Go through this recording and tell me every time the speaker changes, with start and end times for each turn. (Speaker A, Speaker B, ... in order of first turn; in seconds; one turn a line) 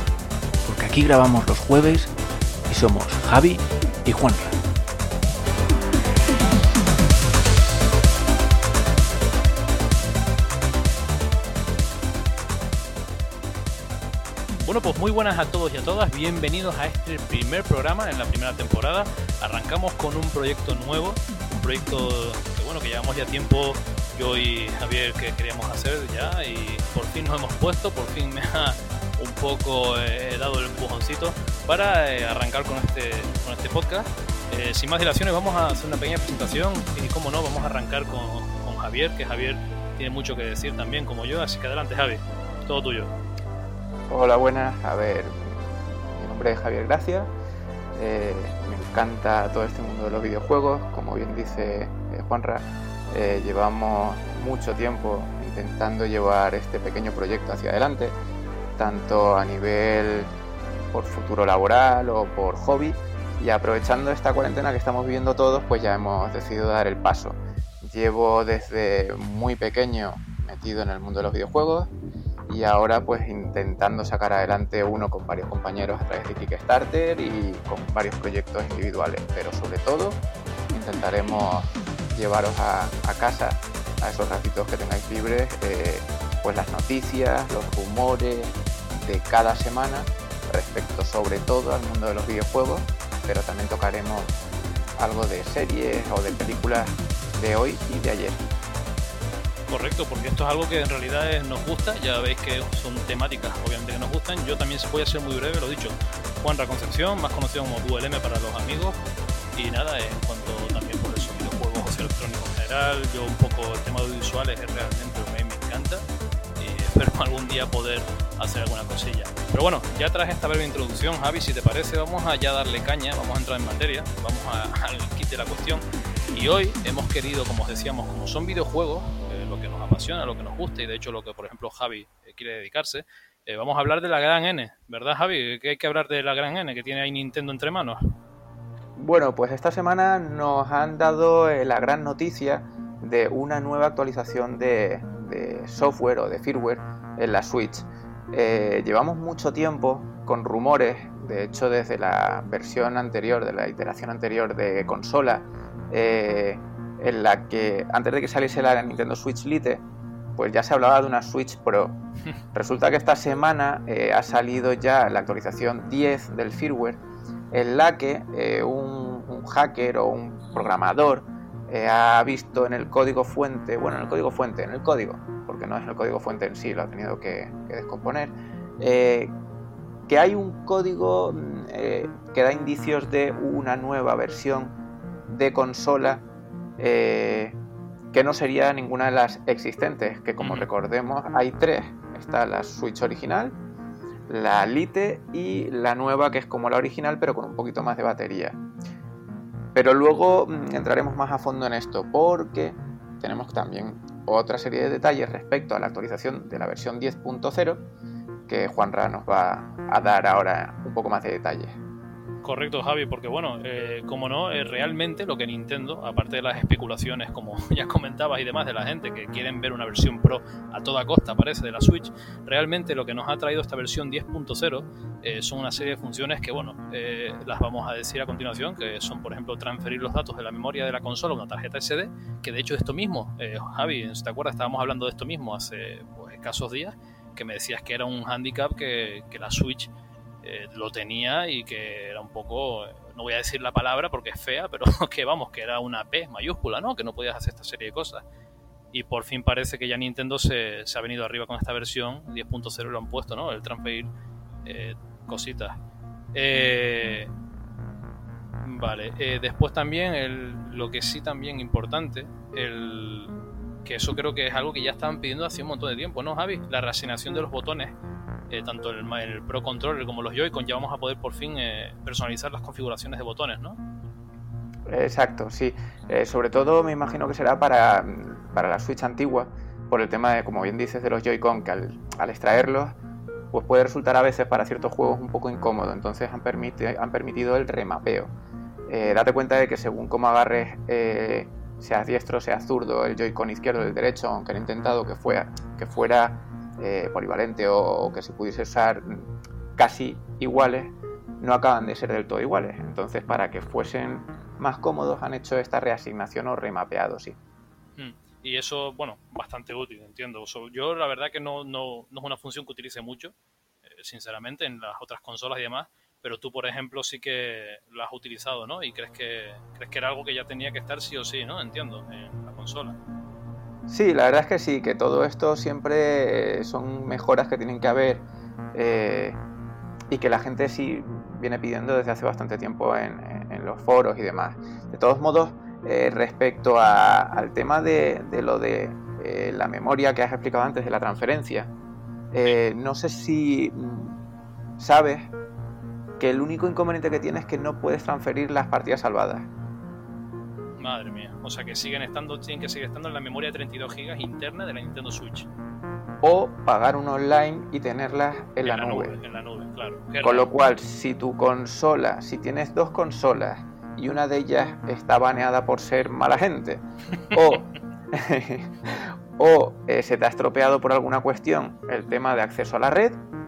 Speaker A: 0.6-2.1
Speaker A: 2.7-4.5
Speaker B: 14.6-43.1
Speaker C: 44.1-47.3
Speaker C: 47.9-58.1
Speaker C: 58.8-60.3
Speaker C: 60.9-71.9
Speaker C: 72.5-94.3
Speaker C: 95.0-98.4
Speaker B: 99.7-109.0
Speaker B: 109.5-116.0
Speaker B: 116.6-138.0
Speaker C: 139.0-159.8
Speaker C: 160.3-162.0
Speaker C: 162.5-167.0
Speaker C: 167.5-179.3
Speaker C: 180.1-184.7
Speaker C: 185.3-186.2
Speaker C: 186.8-187.5
Speaker C: 188.1-193.6
Speaker B: 190.4-190.7
Speaker C: 194.3-198.6
Speaker C: 199.7-207.8
Speaker C: 208.5-211.8
Speaker B: 212.4-239.9
Speaker B: 240.4-248.2
Speaker B: 248.9-254.1
Speaker B: 254.6-255.8
Speaker B: 256.3-257.3
Speaker B: 258.6-267.9
Speaker B: 268.5-273.8
Speaker C: 274.9-282.9
Speaker C: 283.5-288.3
Speaker C: 288.9-307.4
Speaker B: 308.0-323.0
Speaker C: 323.9-329.4
Speaker C: 330.1-341.7
Speaker C: 342.3-344.2
Speaker C: 344.8-345.3
Speaker C: 346.2-349.5
Speaker B: 350.8-355.5
Speaker C: 356.2-359.2
Speaker B: 358.6-360.5
Speaker C: 360.2-373.2